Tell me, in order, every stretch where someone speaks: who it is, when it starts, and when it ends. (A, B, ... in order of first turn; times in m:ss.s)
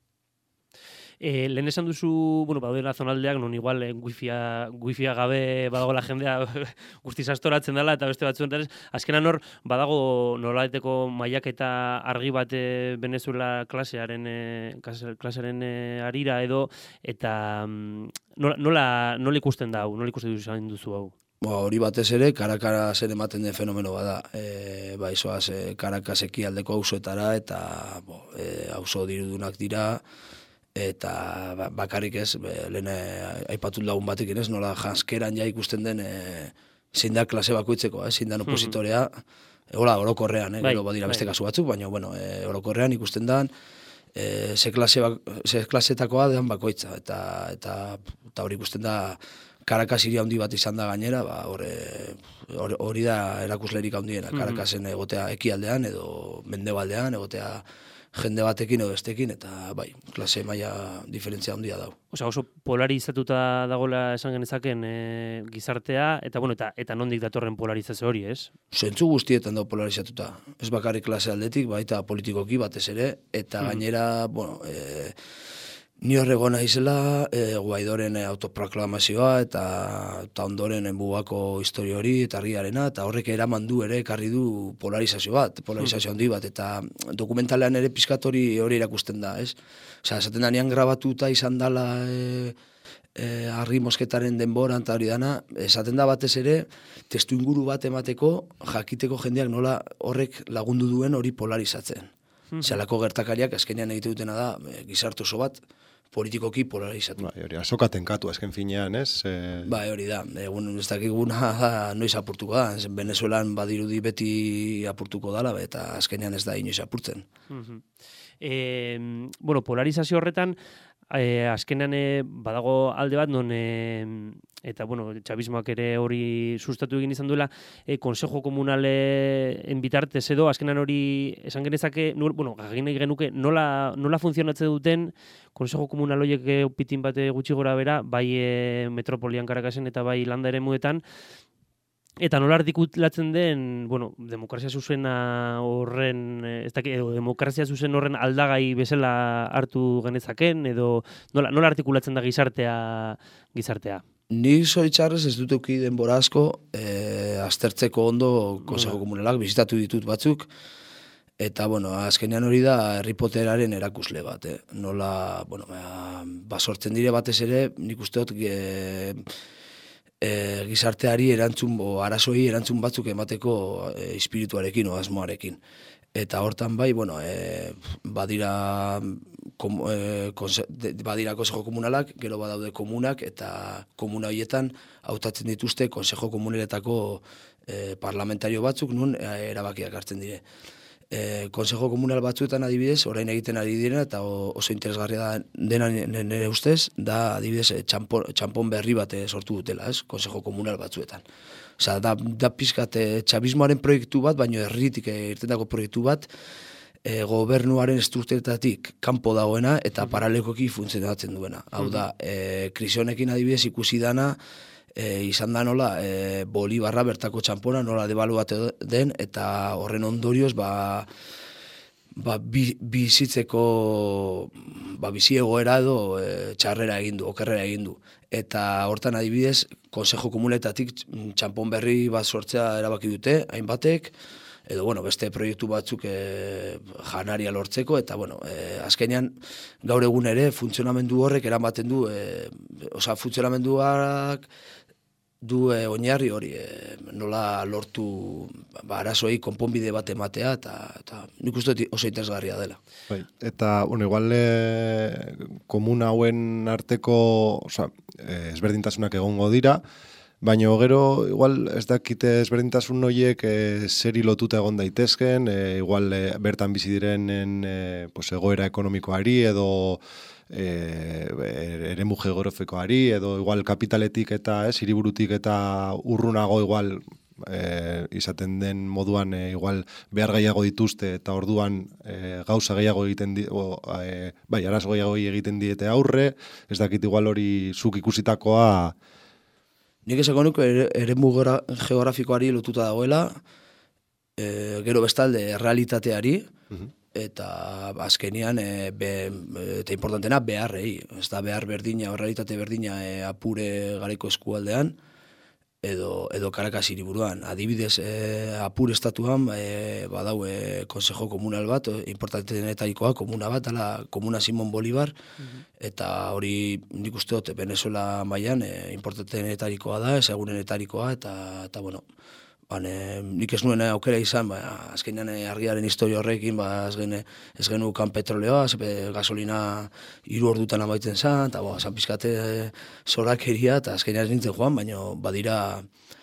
0:01.2-0:21.1 A
0:21.4-0:30.0 B
0:30.8-0:39.2 B
0:38.5-0:38.8 A
0:39.7-0:43.5 B
0:40.6-0:41.2 A
0:44.2-0:57.6 B
0:54.3-0:54.6 A
0:58.1-1:01.9 B
1:02.1-1:08.5 A
1:08.7-1:15.1 B
1:16.0-1:32.6 B
1:33.2-1:42.1 B
1:42.5-1:42.8 A
1:42.6-1:45.6 B
1:46.1-1:47.2 B
1:47.2-1:49.7 C
1:49.6-1:57.2 B
1:57.5-1:57.8 A
1:58.4-2:00.5 A
2:01.1-2:21.0 A
2:22.2-2:34.0 A
2:34.3-2:40.5 B
2:38.7-2:39.0 A
2:41.4-2:49.2 B
2:50.2-2:55.6 B
2:56.1-3:10.4 B
3:11.1-3:21.2 B
3:21.8-3:26.3 B
3:27.0-3:34.4 B
3:34.9-3:41.1 B
3:42.2-3:54.1 B
3:54.7-4:04.4 B
4:05.4-4:12.8 B
4:13.1-4:19.8 C
4:20.4-4:48.9 C
4:50.0-4:53.4 B
4:54.4-4:56.5 B
4:57.1-5:05.0 B
5:05.8-5:15.1 B
5:15.4-5:15.6 A
5:15.8-5:22.0 B
5:22.7-5:35.9 B